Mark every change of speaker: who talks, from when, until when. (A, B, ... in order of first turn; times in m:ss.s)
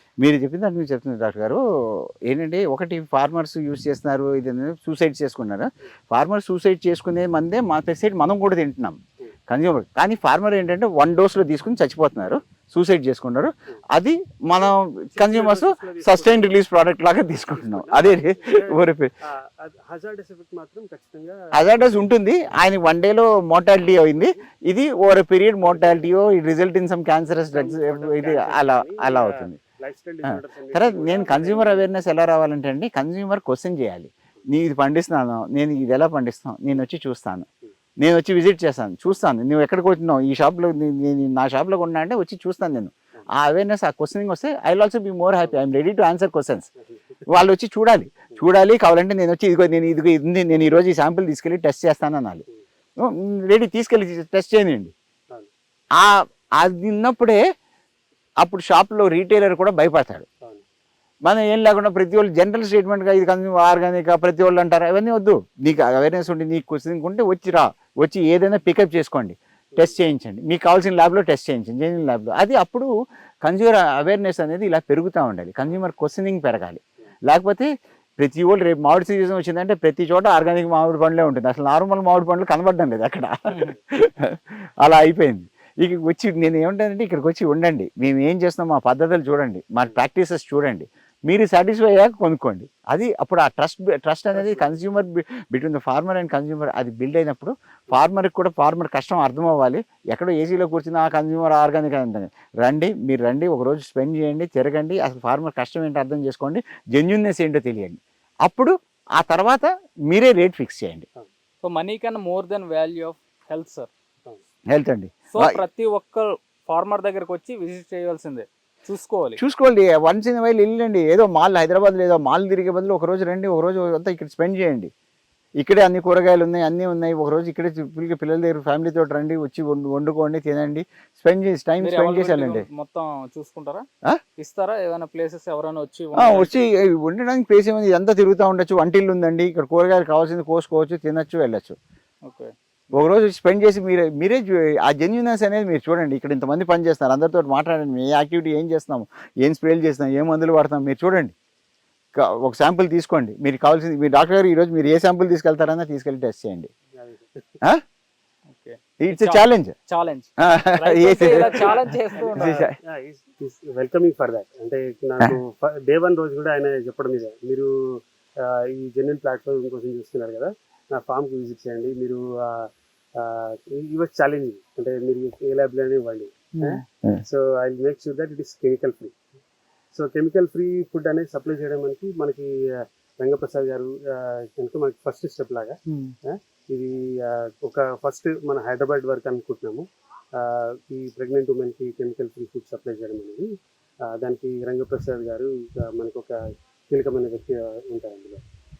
0:00.2-0:09.0 A
0:09.5-0:19.1 A
0:14.6-0:16.5 B
0:17.4-0:22.1 B
0:21.5-0:29.6 A
0:24.1-0:24.4 B
0:25.6-0:26.1 B
0:27.5-0:31.9 B
0:30.2-0:37.4 A
0:38.0-0:46.7 A
0:47.3-0:52.4 A
0:53.0-0:54.9 A
0:56.0-0:57.4 A
0:58.4-1:00.2 A
1:01.2-1:12.9 A
1:09.7-1:10.0 B
1:13.4-1:17.7 A
1:18.2-1:51.1 A
1:34.3-1:34.7 B
1:51.6-1:53.9 C
1:54.7-1:55.6 A
1:55.3-1:59.4 C
1:59.4-2:04.9 A
2:05.6-2:12.6 A
2:11.8-2:13.8 C
2:14.4-2:16.5 C
2:16.2-2:21.8 A
2:22.2-2:22.5 C
2:22.9-2:31.3 A
2:32.1-2:36.7 A
2:36.9-2:37.6 B
2:38.5-2:42.5 C
2:39.0-2:39.7 A
2:40.4-2:41.8 A
2:41.2-2:47.7 B
2:42.3-2:42.7 A
2:48.4-2:59.1 B
2:56.5-2:56.8 C
2:59.9-3:02.5 B
3:03.2-3:09.8 B
3:10.4-3:13.5 B
3:14.0-3:18.4 B